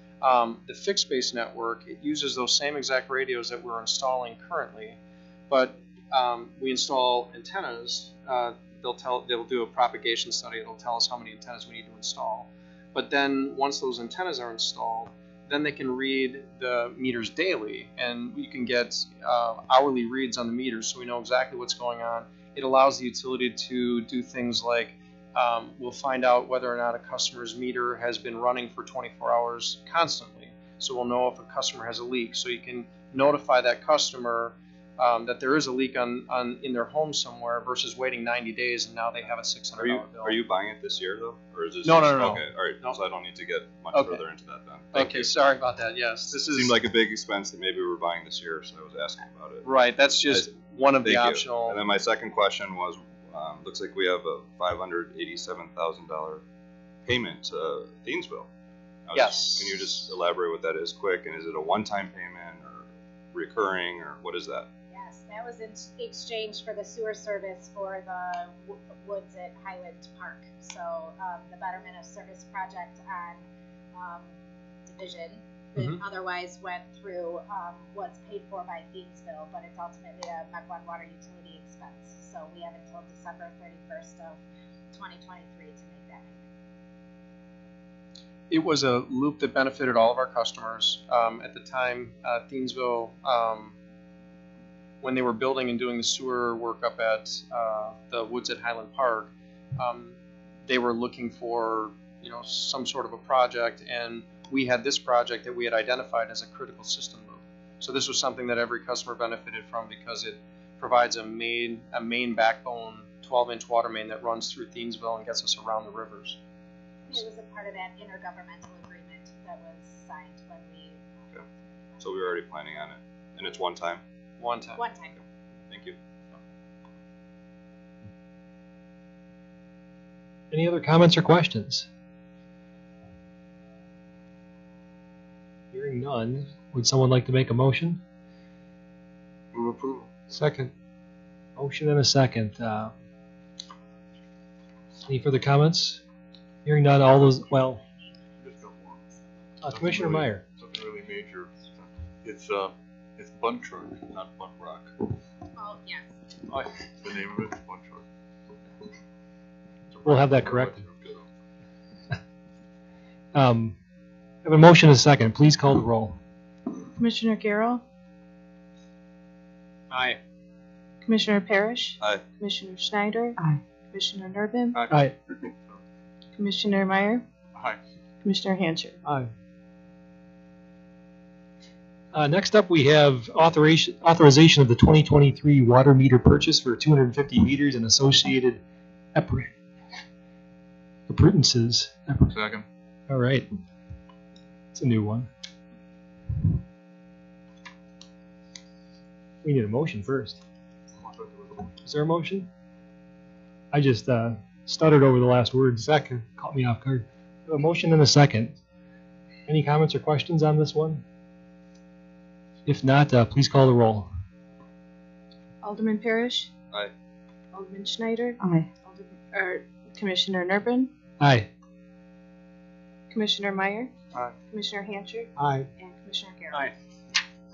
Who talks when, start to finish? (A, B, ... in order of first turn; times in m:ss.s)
0:00.2-0:40.4 A
0:39.8-0:45.3 B
0:41.8-0:43.0 A
0:43.9-0:44.2 A
0:44.9-0:46.8 A
0:46.4-0:49.7 B
0:49.6-0:51.8 A
0:51.0-0:56.4 B
0:57.1-0:58.5 B
0:59.1-1:04.7 B
0:59.1-0:59.7 A
0:59.2-0:59.7 C
1:04.9-1:14.3 C
1:14.9-1:24.4 C
1:15.8-1:16.0 A
1:24.9-1:26.4 C
1:28.5-1:33.8 A
1:35.0-1:56.4 A
1:57.1-2:01.3 C
2:02.0-2:02.4 C
2:02.0-2:04.0 B
2:04.4-2:04.8 A
2:04.8-2:05.2 C
2:05.7-2:06.0 B
2:10.5-2:11.9 D
2:15.7-2:18.0 D
2:19.5-2:20.1 E
2:20.3-2:20.7 D
2:21.6-2:22.9 D
2:25.1-2:26.0 D
2:26.6-2:27.8 D
2:28.4-2:29.0 E
2:29.6-2:30.4 D
2:29.7-2:34.9 E
2:35.6-2:36.1 C
2:36.5-2:38.1 E
2:39.9-2:41.3 E
2:40.0-2:40.8 D
2:43.3-2:43.8 D
2:44.4-2:46.2 D
2:47.0-2:47.8 F
2:49.9-2:50.2 A
2:51.1-2:53.4 F
2:53.9-2:54.8 F
2:54.7-2:55.8 E
2:56.4-2:57.2 F
2:57.5-2:57.8 E
2:58.2-2:59.0 F
3:02.1-3:08.6 D
3:09.1-3:09.5 D
3:11.1-3:12.3 D
3:12.3-3:12.6 E
3:13.1-3:13.5 D
3:14.7-3:15.3 D
3:19.4-3:20.4 D
3:21.0-3:21.7 E
3:21.8-3:22.5 D
3:23.7-3:28.6 D
3:29.5-3:31.0 D
3:32.7-3:34.1 D
3:35.6-3:36.5 F
3:37.5-3:40.9 F
3:41.2-3:41.5 D
3:43.1-3:43.9 F
3:44.5-3:46.7 F